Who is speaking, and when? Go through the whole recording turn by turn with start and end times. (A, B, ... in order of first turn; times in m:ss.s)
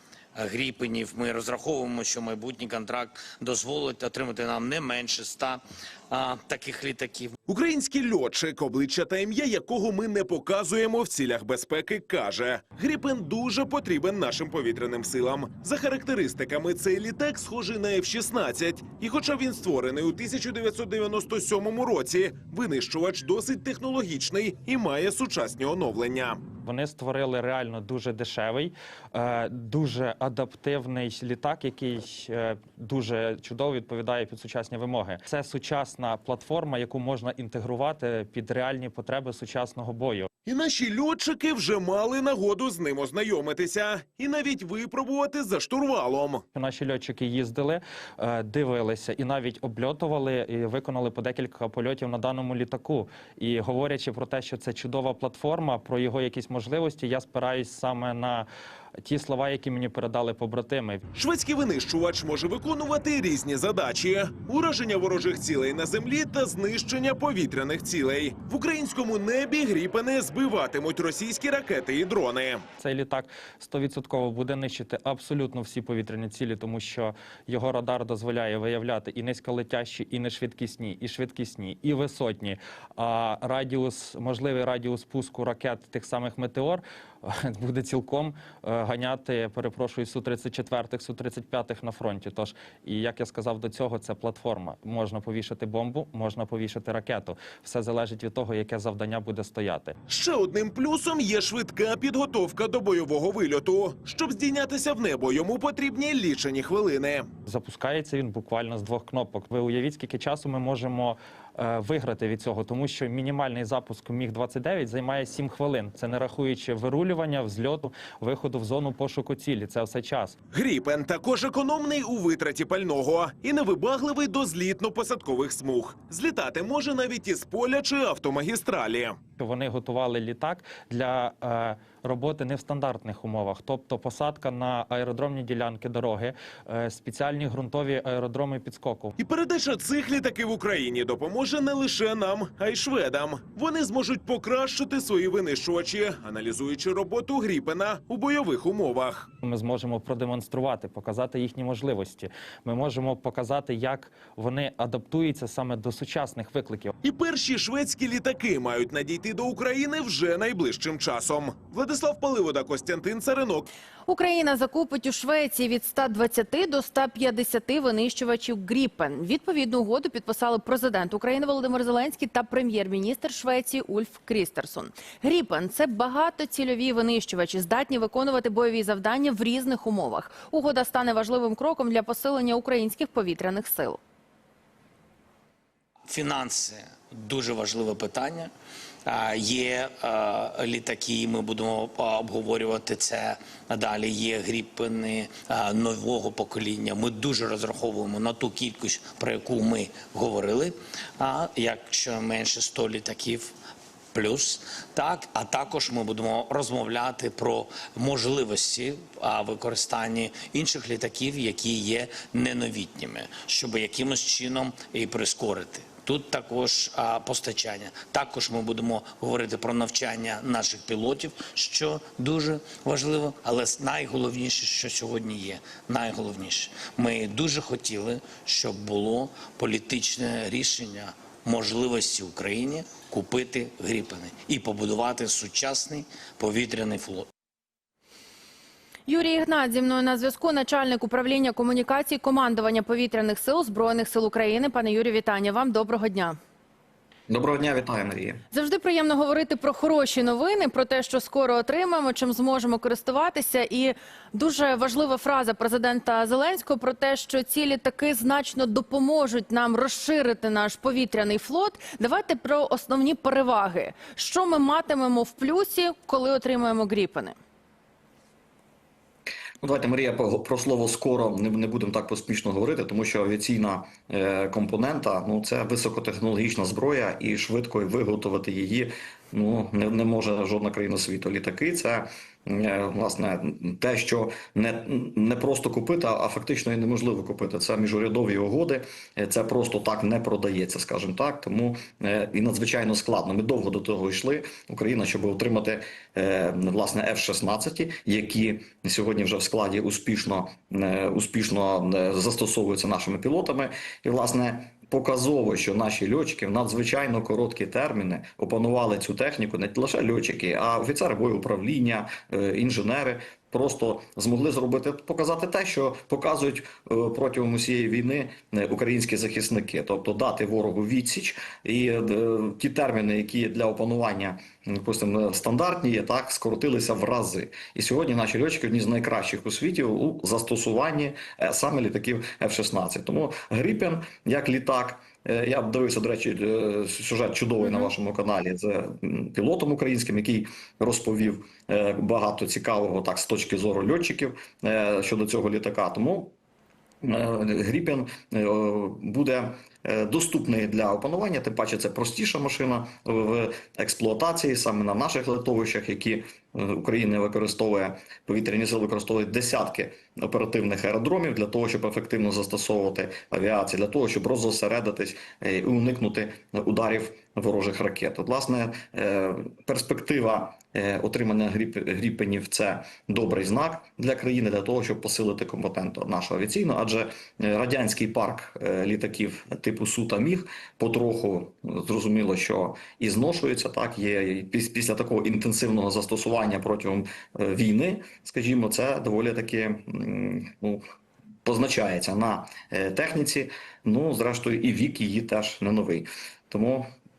0:00.4-0:07.4 A
0:07.5-0:26.4 B
0:26.6-0:40.3 C
0:40.4-0:46.4 B
0:46.5-0:58.5 C
0:59.0-1:01.0 C
1:01.1-1:12.6 B
1:12.8-1:40.0 C
1:40.1-1:47.3 B
1:47.5-2:00.4 C
2:00.5-2:09.2 B
2:09.4-2:19.2 C
2:19.2-2:29.3 B
2:29.4-2:36.9 C
2:37.0-2:43.7 B
2:44.1-3:04.0 D
3:06.1-3:08.5 A
3:09.1-3:23.5 A
3:24.1-3:57.3 A
3:59.1-4:06.4 D
4:07.3-4:08.4 E
4:08.5-4:27.4 D
4:29.6-5:46.4 E
5:47.0-6:30.8 E
6:31.4-6:36.9 E